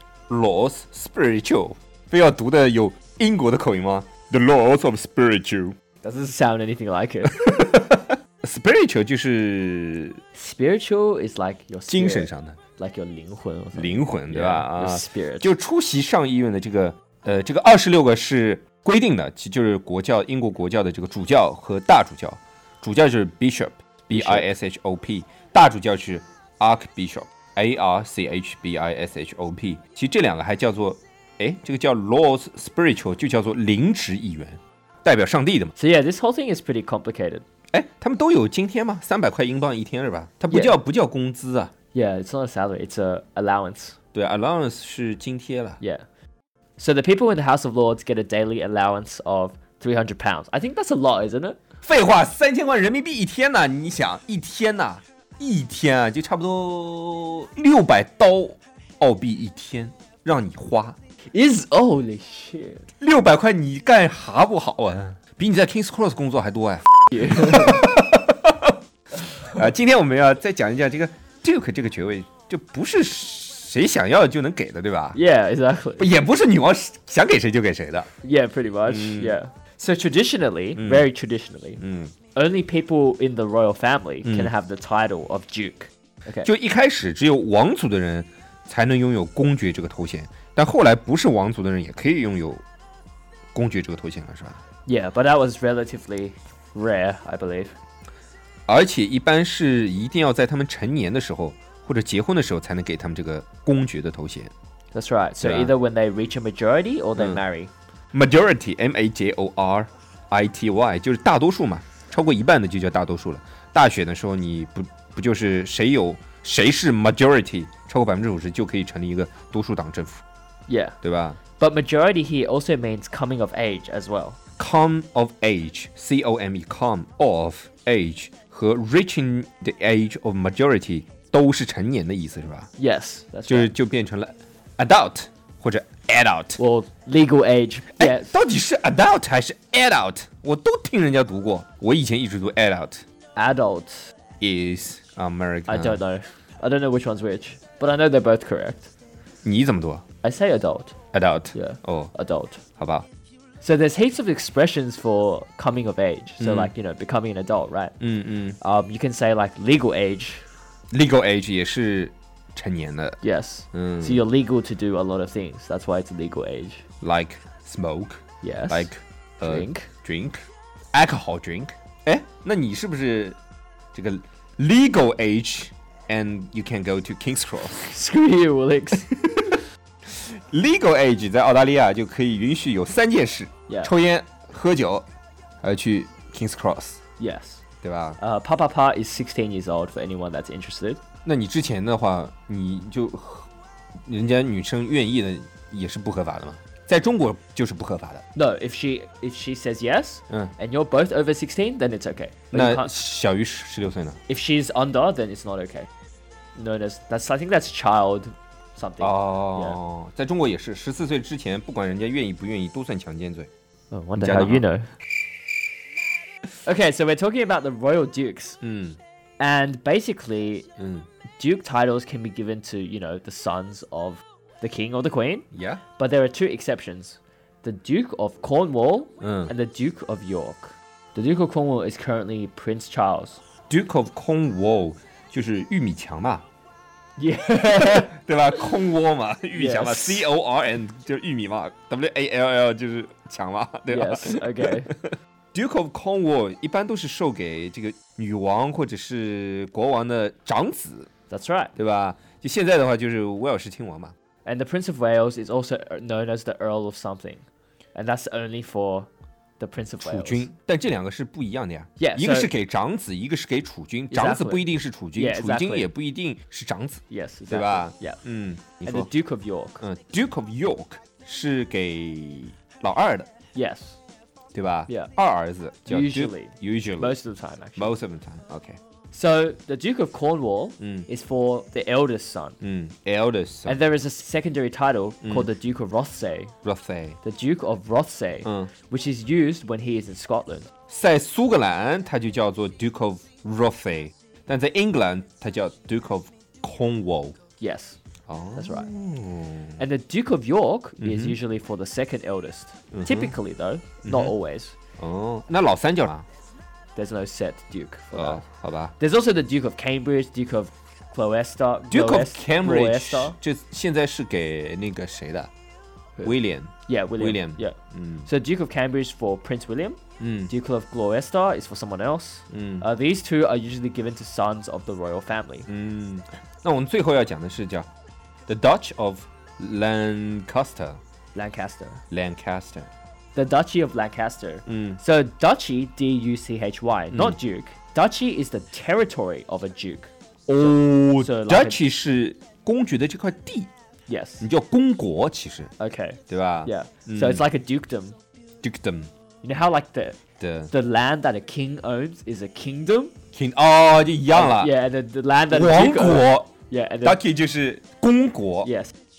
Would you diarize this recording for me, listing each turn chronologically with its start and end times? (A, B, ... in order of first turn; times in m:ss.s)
0:00.3-0:05.8 A
0:06.0-0:07.6 B
0:07.5-0:10.2 A
0:10.4-0:15.5 B
0:11.9-0:12.6 A
0:13.8-0:35.7 A
0:24.1-0:24.5 B
0:35.8-0:37.4 B
0:37.7-0:41.7 A
0:40.5-0:40.8 B
0:41.9-0:44.0 B
0:44.1-0:45.8 A
0:45.8-0:46.1 B
0:46.8-0:51.6 B
0:51.8-1:01.0 A
1:01.3-1:02.9 B
1:03.0-1:08.8 A
1:07.1-1:07.8 B
1:09.4-1:15.2 A
1:15.1-1:16.1 B
1:16.0-1:18.1 A
1:18.2-1:21.8 B
1:18.9-1:19.4 A
1:20.8-1:21.1 A
1:21.8-1:22.1 A
1:22.3-1:26.5 B
1:24.2-1:24.5 A
1:26.4-1:32.6 A
1:33.5-1:34.6 A
1:34.9-1:37.8 B
1:38.7-1:44.5 A
1:44.9-1:47.7 B
1:45.4-1:45.7 A
1:48.1-2:00.2 A
2:00.7-2:01.0 B
2:01.0-2:01.4 A
2:01.6-2:04.4 B
2:04.6-2:12.7 A
2:12.8-2:13.7 B
2:13.5-2:16.6 A
2:16.6-2:18.4 B
2:18.0-2:23.0 A
2:23.4-2:24.1 B
2:24.4-2:26.0 A
2:25.7-2:28.9 B
2:29.4-2:30.0 A
2:30.2-2:31.0 B
2:31.1-2:32.1 A
2:31.5-2:32.6 B
2:32.8-2:33.1 A
2:33.6-2:37.9 B
2:36.4-2:36.7 A
2:38.0-2:38.6 A
2:38.6-2:40.4 B
2:40.9-2:43.2 A
2:43.2-2:46.8 B
2:43.7-2:44.2 A
2:47.0-2:53.4 A
2:48.4-2:48.9 B
2:49.4-2:49.9 B
2:53.9-2:57.9 A
2:57.8-2:59.2 B
3:00.0-3:05.0 A
3:05.6-3:07.0 A
3:07.2-3:07.6 B
3:07.8-3:08.2 A
3:08.2-3:11.0 B
3:11.2-3:13.5 A
3:14.1-3:18.2 A
3:18.4-3:22.9 B
3:22.5-3:24.2 A
3:24.3-3:25.9 B
3:26.6-3:29.8 B
3:29.0-3:33.5 A
3:33.9-3:34.9 B
3:34.2-3:34.6 A
3:36.6-3:38.6 B
3:38.6-3:39.0 A
3:39.4-3:40.7 B
3:40.8-3:41.1 A
3:41.4-3:45.5 B
3:45.5-3:45.8 A
3:46.0-3:53.4 B
3:49.2-3:49.5 A
3:53.7-3:56.4 A
3:57.2-3:58.1 B
3:57.5-4:11.1 A
3:59.5-4:00.2 B
4:03.9-4:04.9 B
4:11.3-4:11.7 B
4:11.8-4:14.1 A
4:14.4-4:20.5 B
4:20.0-4:29.1 A
4:22.0-4:22.5 B
4:24.1-4:25.9 B
4:27.1-4:28.2 B
4:28.8-4:29.8 B
4:29.8-4:33.3 A
4:33.5-4:34.0 B
4:34.5-4:37.2 A
4:35.9-4:38.0 B
4:37.8-4:38.8 A
4:39.1-4:42.6 B
4:40.8-4:41.1 A
4:42.6-4:43.8 A
4:43.7-4:46.5 B
4:45.2-4:45.5 A
4:46.6-4:47.2 A
4:47.2-4:50.7 B
4:48.4-4:48.7 A
4:50.9-4:57.4 A
4:57.6-4:58.0 B
4:58.3-4:59.8 A
4:58.6-4:58.9 B
4:59.8-5:04.8 B
5:01.0-5:01.4 A
5:02.9-5:03.4 A
5:04.0-5:04.3 A
5:05.0-5:06.3 A
5:07.0-5:08.4 B
5:08.1-5:08.9 A
5:09.0-5:13.4 B
5:11.9-5:15.5 A
5:16.2-5:18.3 A
5:16.9-5:25.7 B
5:20.2-5:20.5 A
5:22.5-5:22.9 A
5:25.7-5:27.9 A
5:28.5-5:31.0 A
5:31.3-5:32.0 B
5:32.1-5:32.9 A
5:33.4-5:41.8 B
5:34.7-5:35.0 A
5:37.1-5:37.4 A
5:40.5-5:43.7 A
5:44.1-5:44.5 B
5:44.4-5:45.7 A
5:45.8-5:48.2 B
5:46.3-5:47.4 A
5:48.6-5:49.1 A
5:49.4-5:50.2 B
5:50.4-5:50.7 A
5:50.7-5:53.1 B
5:53.3-5:54.7 A
5:54.3-5:57.2 B
5:55.5-5:56.5 A
5:57.0-5:58.7 A
5:58.6-5:58.9 B